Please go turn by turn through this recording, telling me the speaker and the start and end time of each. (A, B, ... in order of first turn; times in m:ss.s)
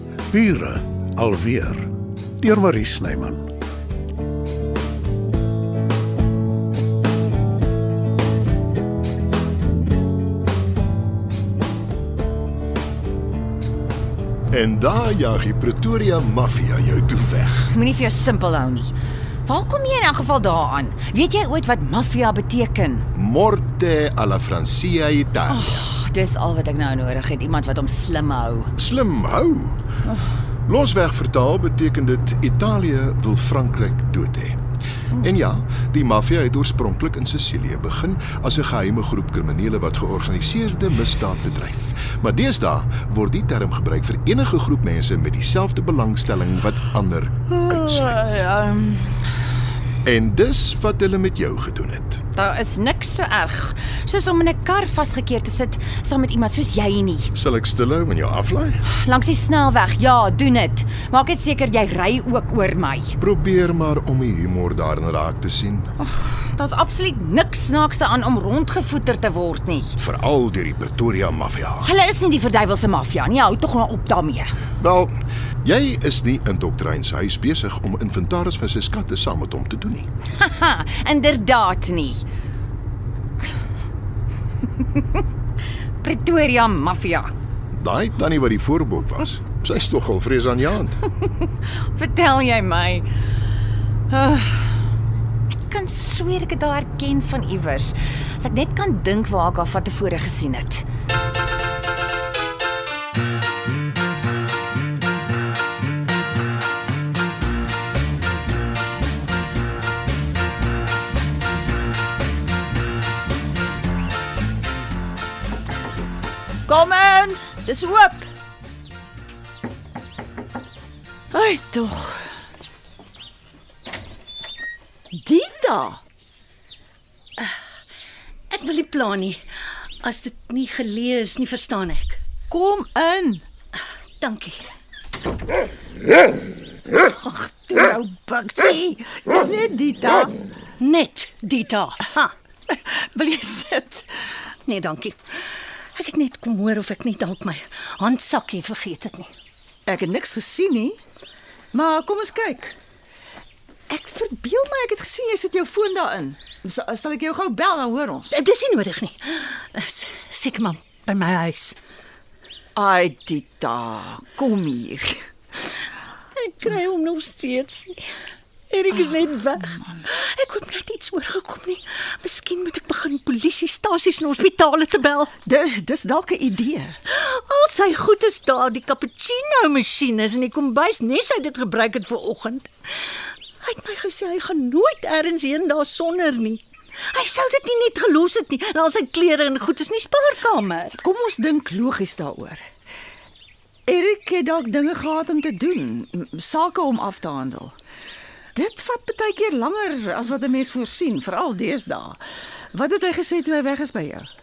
0:00.3-0:03.5 A
0:14.5-0:17.7 B
0:17.7-0:18.9 C
0:19.5-0:23.0 C
0:23.1-0:25.8 B
0:25.5-0:28.7 C
0:28.8-0:29.8 B
0:30.7-0:34.6 B
0:35.2-0:48.4 B
0:47.6-0:49.3 C
0:50.0-0:52.2 B
0:52.3-0:57.3 C
0:57.3-0:58.8 B
0:58.9-1:03.1 C
1:03.2-1:05.9 B
1:06.0-1:09.9 C
1:10.0-1:11.9 B
1:11.8-1:14.5 C
1:14.8-1:20.1 B
1:20.4-1:22.2 C
1:24.9-1:25.2 C
1:26.0-1:27.3 C
1:27.8-1:31.0 B
1:31.9-1:33.1 C
1:34.1-1:34.9 C
1:35.5-1:40.8 C
1:56.7-1:58.2 D
2:01.3-2:02.2 D
2:05.1-2:06.0 D
2:08.5-2:09.4 E
2:10.0-2:12.2 E
2:12.5-2:13.4 D
2:14.2-2:14.6 E
2:17.0-2:20.3 D
2:20.8-2:22.3 E
2:22.7-2:24.1 D
2:24.6-2:25.2 E
2:25.9-2:29.3 E
2:29.9-2:31.0 D
2:31.7-2:32.7 D
2:33.9-2:38.4 D
2:38.3-2:41.8 E
2:42.8-2:45.2 D
2:46.3-2:48.1 E
2:48.7-2:55.3 E
2:55.4-2:57.0 D
2:57.1-3:02.7 E
3:03.6-3:11.0 E
3:11.0-3:12.6 D
3:13.9-3:17.7 D
3:18.5-3:22.2 D
3:22.7-3:24.3 D